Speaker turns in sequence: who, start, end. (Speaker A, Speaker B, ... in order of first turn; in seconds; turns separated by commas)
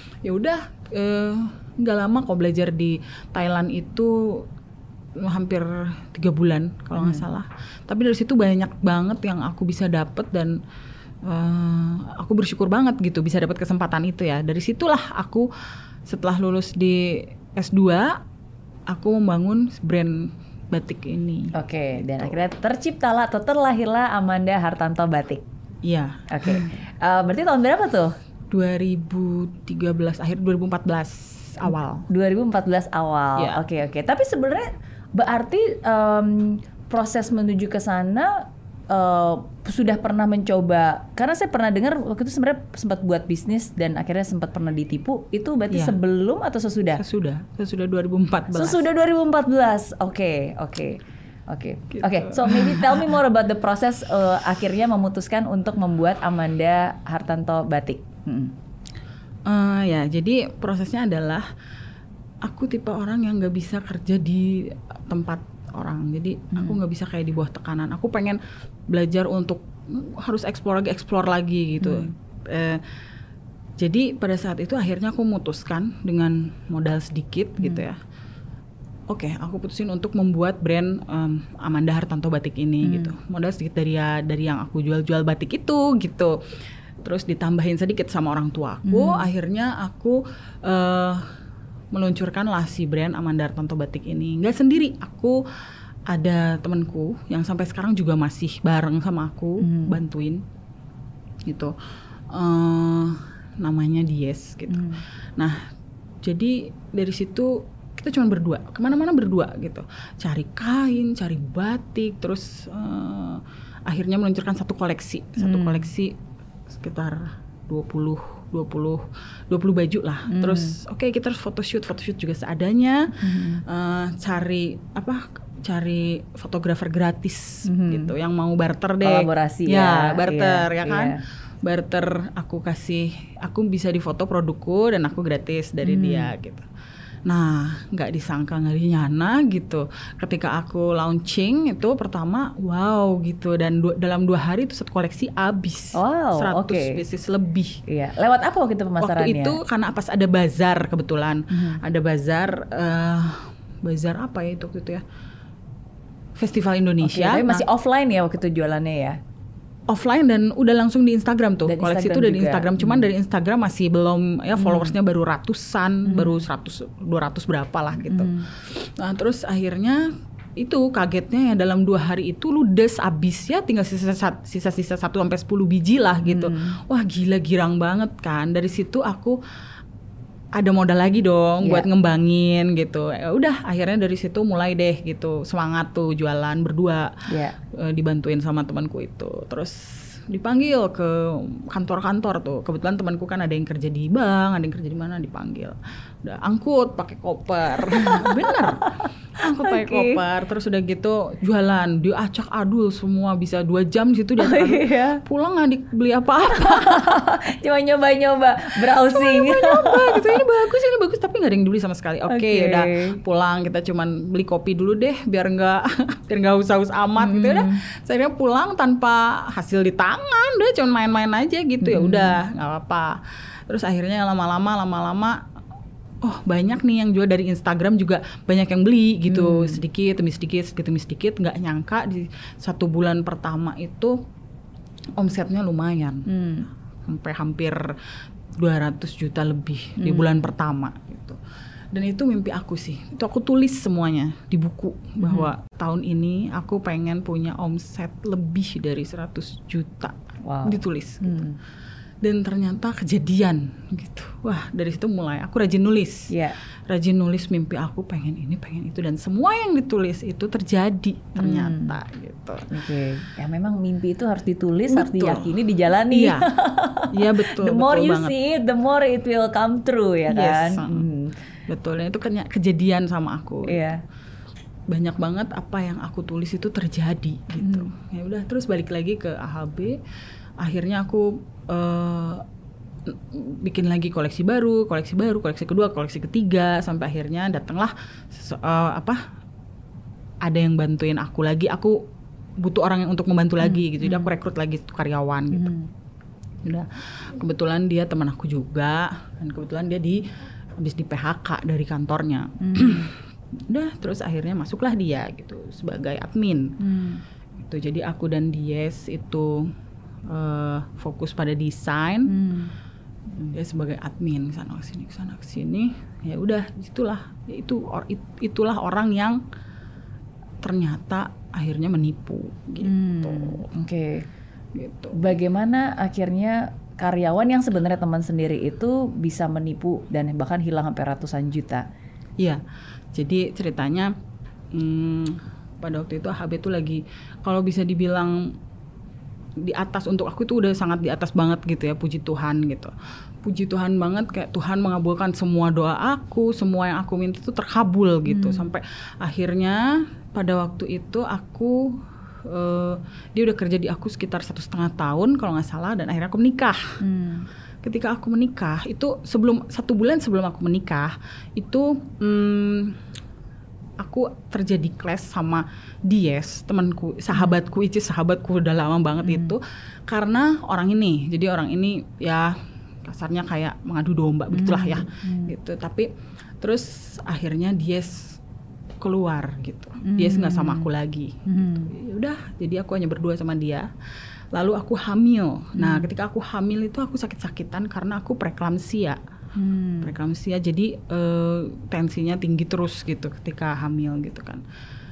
Speaker A: 0.2-4.5, Speaker A: 5.2-10.6, Speaker B: 7.0-7.2, Speaker A: 11.2-15.5, Speaker A: 16.1-18.2, Speaker A: 18.9-21.5, Speaker B: 21.5-25.4, Speaker A: 25.9-26.7, Speaker B: 26.3-28.1, Speaker A: 28.5-32.1, Speaker B: 32.1-47.0, Speaker A: 47.0-48.9, Speaker B: 48.5-58.5, Speaker A: 51.9-53.2, Speaker A: 59.5-61.5, Speaker A: 62.5-72.8, Speaker B: 71.8-72.1, Speaker A: 73.8-78.0, Speaker B: 77.6-77.8, Speaker A: 79.1-86.4, Speaker B: 82.8-83.2, Speaker A: 87.0-91.3, Speaker B: 88.9-89.3, Speaker A: 91.9-95.4, Speaker A: 96.1-100.4, Speaker B: 99.6-100.0, Speaker A: 101.5-101.7, Speaker A: 102.3-105.7, Speaker B: 104.7-105.0, Speaker A: 106.2-116.2, Speaker B: 115.4-115.9, Speaker A: 116.7-136.7, Speaker B: 120.3-120.8, Speaker B: 123.2-123.6, Speaker B: 127.7-128.1, Speaker B: 129.0-131.2, Speaker B: 135.8-136.3, Speaker A: 137.3-147.8, Speaker B: 146.0-147.0, Speaker B: 147.9-149.6, Speaker A: 149.0-155.0, Speaker B: 151.5-151.8, Speaker A: 156.4-157.7, Speaker B: 157.0-159.2, Speaker A: 159.9-170.0, Speaker B: 161.7-163.1, Speaker B: 164.6-165.0, Speaker B: 166.1-166.4, Speaker B: 168.1-168.5, Speaker A: 170.6-179.4, Speaker B: 176.2-176.8, Speaker A: 180.6-187.2, Speaker B: 181.6-181.9, Speaker B: 187.3-187.6, Speaker A: 187.7-207.2, Speaker B: 198.0-198.7, Speaker B: 199.7-200.2, Speaker B: 204.4-205.2, Speaker B: 206.5-210.4, Speaker A: 208.9-223.2, Speaker B: 212.3-213.2, Speaker B: 217.2-217.8, Speaker B: 221.8-222.4, Speaker A: 223.7-225.4, Speaker A: 226.2-234.2, Speaker B: 229.3-229.8, Speaker A: 235.2-236.3, Speaker B: 236.3-236.7, Speaker A: 237.0-237.9, Speaker A: 238.6-241.4, Speaker B: 240.0-240.5, Speaker A: 241.9-251.4, Speaker B: 245.2-245.5, Speaker B: 250.4-251.6, Speaker A: 252.2-256.3, Speaker B: 256.3-256.6, Speaker A: 256.9-262.7, Speaker B: 261.4-262.0, Speaker B: 262.7-271.4, Speaker A: 264.9-265.5, Speaker A: 266.1-266.5, Speaker A: 267.1-268.3, Speaker A: 270.3-271.1, Speaker A: 271.7-273.8, Speaker B: 273.7-274.0, Speaker A: 274.9-280.0, Speaker B: 277.6-277.9, Speaker A: 280.6-282.4, Speaker A: 283.1-289.2, Speaker A: 290.4-292.1, Speaker A: 292.6-295.7, Speaker B: 293.6-294.3, Speaker B: 295.5-295.9, Speaker A: 296.6-300.2, Speaker A: 300.8-306.8, Speaker B: 302.6-303.1, Speaker B: 306.8-307.2, Speaker A: 307.6-309.7, Speaker A: 310.3-312.4, Speaker B: 312.3-312.7, Speaker A: 313.4-319.4, Speaker A: 320.6-323.7, Speaker B: 322.9-324.3, Speaker A: 324.7-325.3, Speaker B: 325.1-331.9, Speaker A: 333.1-334.1, Speaker A: 334.7-338.5, Speaker A: 339.6-342.9, Speaker A: 343.4-356.8, Speaker B: 348.3-348.7, Speaker B: 357.0-357.5, Speaker A: 357.8-363.0, Speaker A: 364.0-376.1, Speaker B: 369.2-369.6, Speaker B: 374.5-375.5, Speaker A: 376.6-378.4, Speaker A: 379.0-383.9, Speaker B: 380.1-380.9, Speaker B: 381.5-381.9, Speaker A: 384.5-389.2, Speaker B: 385.8-386.1, Speaker B: 389.6-390.1, Speaker A: 390.0-394.6